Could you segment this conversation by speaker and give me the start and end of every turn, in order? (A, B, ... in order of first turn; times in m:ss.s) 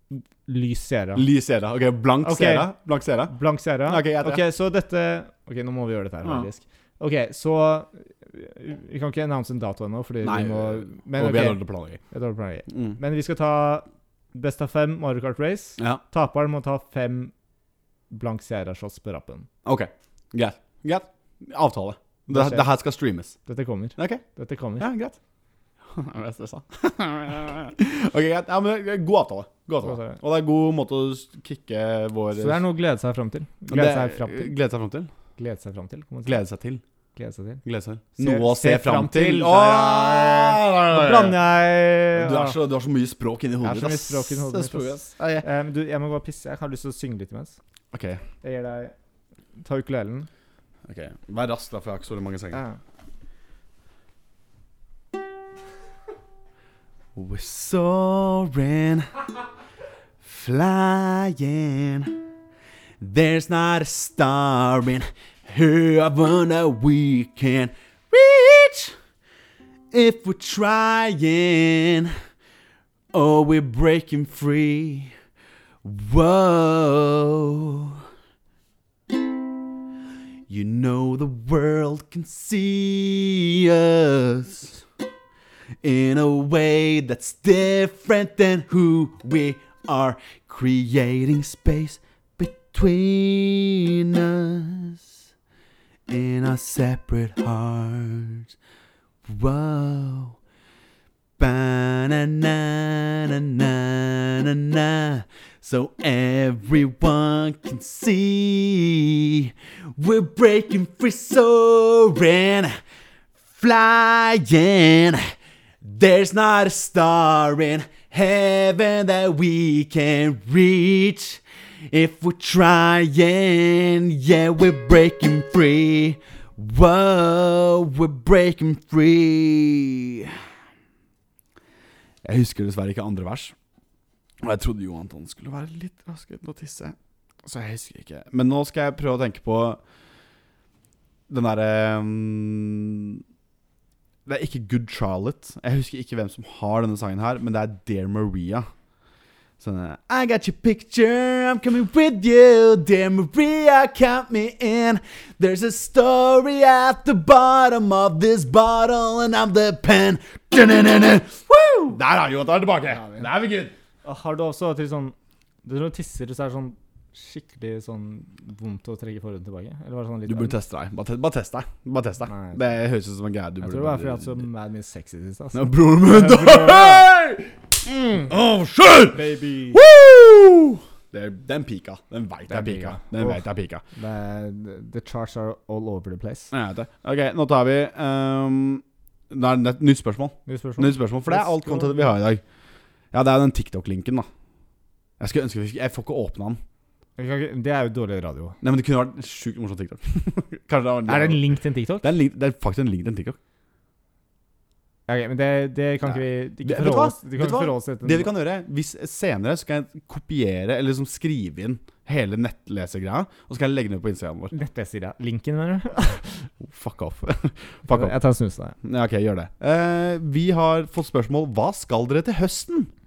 0:00.1-0:01.3 A
0:01.2-0:03.4 B
0:02.2-0:02.7 A
0:03.3-0:17.3 A
0:03.9-0:04.4 B
0:10.2-0:12.0 B
0:12.7-0:13.0 B
0:18.1-0:19.5 A
0:19.6-0:23.4 B
0:22.3-0:22.7 A
0:23.5-0:24.9 A
0:24.0-0:24.2 B
0:24.8-0:25.2 B
0:25.9-0:32.6 B
0:29.8-0:30.2 A
0:32.3-0:34.5 A
0:33.7-0:35.1 B
0:35.4-0:36.4 A
0:36.2-0:36.8 B
0:37.2-0:37.6 A
0:37.6-0:41.4 B
0:38.2-0:42.6 A
0:42.1-0:45.4 B
0:43.6-0:47.6 A
0:47.9-0:48.2 B
0:48.4-0:48.9 A
0:49.6-0:50.3 A
0:50.8-0:52.6 B
0:52.5-0:52.8 A
0:57.2-0:59.2 B
1:00.2-1:02.2 B
1:03.0-1:09.0 B
1:09.9-1:12.1 B
1:13.1-1:15.1 B
1:15.8-1:18.0 B
1:20.5-1:24.8 B
1:25.8-1:35.1 B
1:36.1-1:38.5 B
1:39.3-1:40.4 B
1:41.4-1:52.8 B
1:53.6-1:55.2 B
1:55.8-2:10.4 B
2:12.2-2:13.6 B
2:14.4-2:19.8 B
2:21.3-2:23.2 B
2:24.3-2:28.7 B
2:29.6-2:43.7 B
2:42.9-2:43.3 A
2:44.0-2:50.6 A
2:50.3-2:54.4 B
2:52.3-2:52.6 A
2:53.6-2:57.1 A
2:55.5-3:03.8 B
2:59.1-2:59.8 A
3:02.5-3:03.4 A
3:04.0-3:06.5 A
3:06.5-3:12.4 B
3:10.5-3:12.1 A
3:13.1-3:14.3 B
3:15.2-3:16.6 B
3:17.2-3:18.6 A
3:18.6-3:21.4 B
3:21.1-3:22.1 A
3:22.0-3:23.4 B
3:25.1-3:28.3 A
3:26.1-3:34.5 B
3:34.5-3:36.4 A
3:36.6-3:38.2 B
3:37.9-3:38.8 A
3:38.8-3:42.9 B